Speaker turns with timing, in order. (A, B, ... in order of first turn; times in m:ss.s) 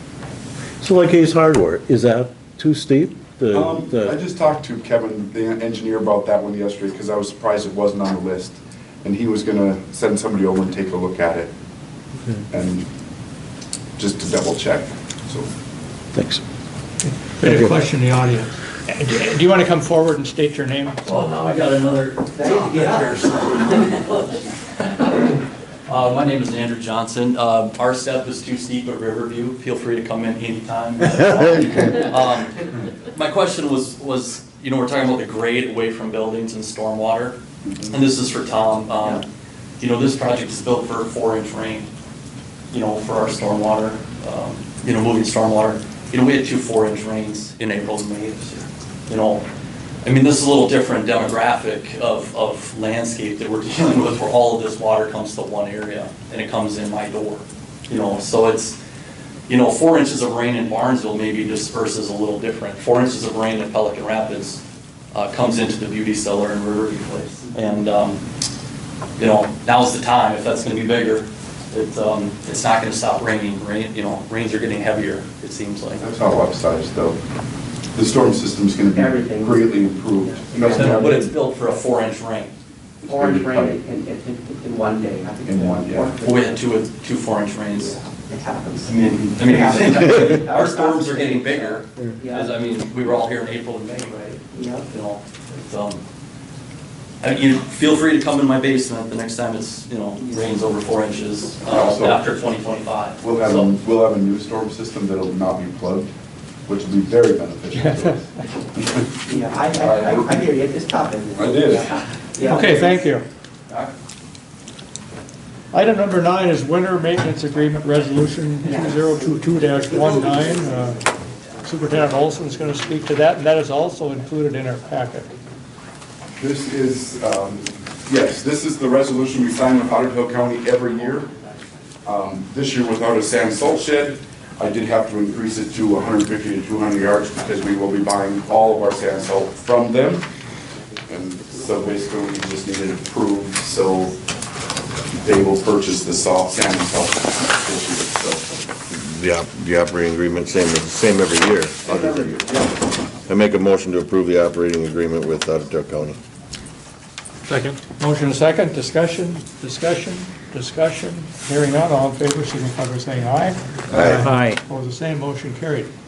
0:00.8-0:04.2 A
0:03.5-0:11.5 B
0:12.5-0:12.8 B
0:14.0-0:15.5 B
0:16.1-0:16.4 A
0:17.3-0:21.0 C
0:17.4-0:17.8 A
0:21.0-0:25.3 D
0:22.3-0:23.2 E
0:25.9-0:37.4 D
0:37.6-0:38.0 B
0:37.9-0:39.2 D
0:39.8-0:41.9 D
0:42.7-0:49.4 D
0:50.0-0:58.8 D
0:59.5-1:04.6 D
1:05.1-1:08.2 D
1:09.2-1:16.0 D
1:15.9-1:17.2 B
1:17.9-1:21.3 B
1:18.9-1:21.1 E
1:20.6-1:22.5 D
1:23.0-1:23.8 B
1:23.1-1:26.6 E
1:25.5-1:26.3 B
1:26.2-1:28.0 D
1:27.7-1:32.6 E
1:28.8-1:36.0 D
1:34.5-1:34.9 E
1:37.2-1:43.7 D
1:40.2-1:40.5 E
1:41.7-1:42.2 B
1:43.2-1:46.1 B
1:46.6-1:49.0 B
1:47.7-1:48.4 C
1:49.2-1:53.0 E
1:49.7-1:50.5 B
1:51.3-1:51.9 B
1:52.4-1:53.3 C
1:55.7-2:01.0 C
1:58.6-2:03.2 E
2:01.6-2:05.3 C
2:04.8-2:05.5 E
2:06.4-2:11.3 B
2:10.9-2:11.8 E
2:12.0-2:20.2 B
2:18.1-2:19.4 E
2:20.7-2:22.3 E
2:21.1-2:24.2 B
2:25.2-2:28.6 B
2:28.9-2:32.5 F
2:31.8-2:32.8 E
2:33.3-2:36.2 F
2:37.8-2:45.9 C
2:43.9-2:44.3 F